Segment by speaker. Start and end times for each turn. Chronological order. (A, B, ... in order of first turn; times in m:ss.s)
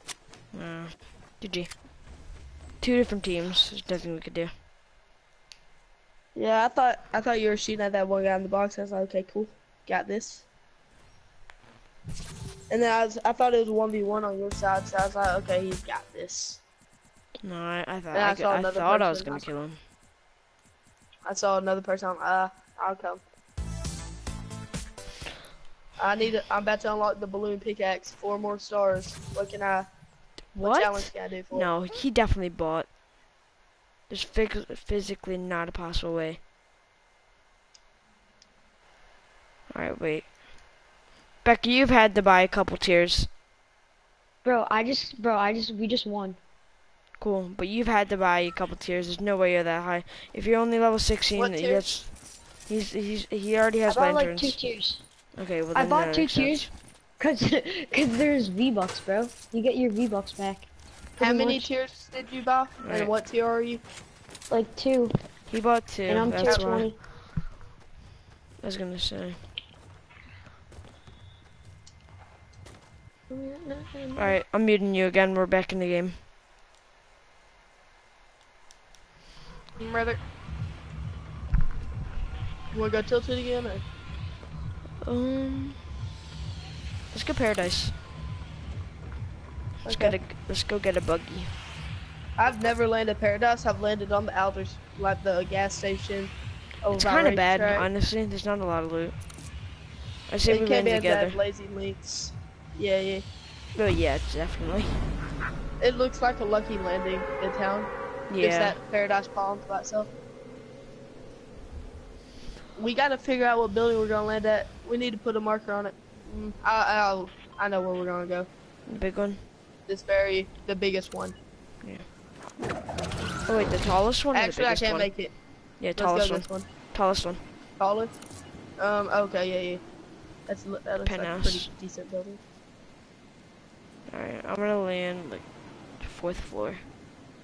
0:00.5-0:01.7 A
0:02.8-0:04.5 A
0:06.3-0:10.4 B
0:12.7-0:16.6 B
0:17.4-0:19.8 A
0:18.1-0:19.5 B
0:21.2-0:23.2 B
0:26.0-0:29.9 B
0:30.5-0:32.9 A
0:30.6-0:31.7 B
0:34.1-0:36.4 A
0:39.7-0:40.4 A
0:41.4-0:43.3 A
0:44.4-0:46.4 C
0:47.2-0:52.1 A
0:51.3-0:51.8 B
0:52.7-0:54.6 A
0:53.9-0:55.0 C
0:55.3-0:56.7 A
0:55.7-1:01.7 C
1:01.2-1:03.8 B
1:02.8-1:03.1 A
1:04.5-1:05.2 C
1:05.5-1:06.9 A
1:06.1-1:07.0 C
1:06.4-1:06.7 B
1:08.6-1:09.4 A
1:13.3-1:14.4 C
1:14.2-1:16.2 A
1:19.8-1:20.2 B
1:22.7-1:23.8 B
1:25.0-1:25.8 A
1:27.1-1:27.9 A
1:29.8-1:31.5 A
1:29.8-1:30.2 B
1:32.4-1:37.9 B
1:36.9-1:39.1 A
1:40.3-1:41.4 A
1:40.5-1:43.2 B
1:43.7-1:45.0 A
1:45.8-1:50.1 B
1:48.3-1:48.8 A
1:52.8-1:58.5 B
1:58.9-1:59.4 A
1:59.9-2:01.4 B
2:03.5-2:05.1 A
2:04.3-2:05.3 B
2:05.8-2:07.4 A
2:05.9-2:06.7 B
2:07.8-2:08.2 B
2:08.8-2:09.8 B
2:10.5-2:12.4 B
2:11.0-2:11.7 A
2:14.1-2:15.4 A
2:16.0-2:16.8 A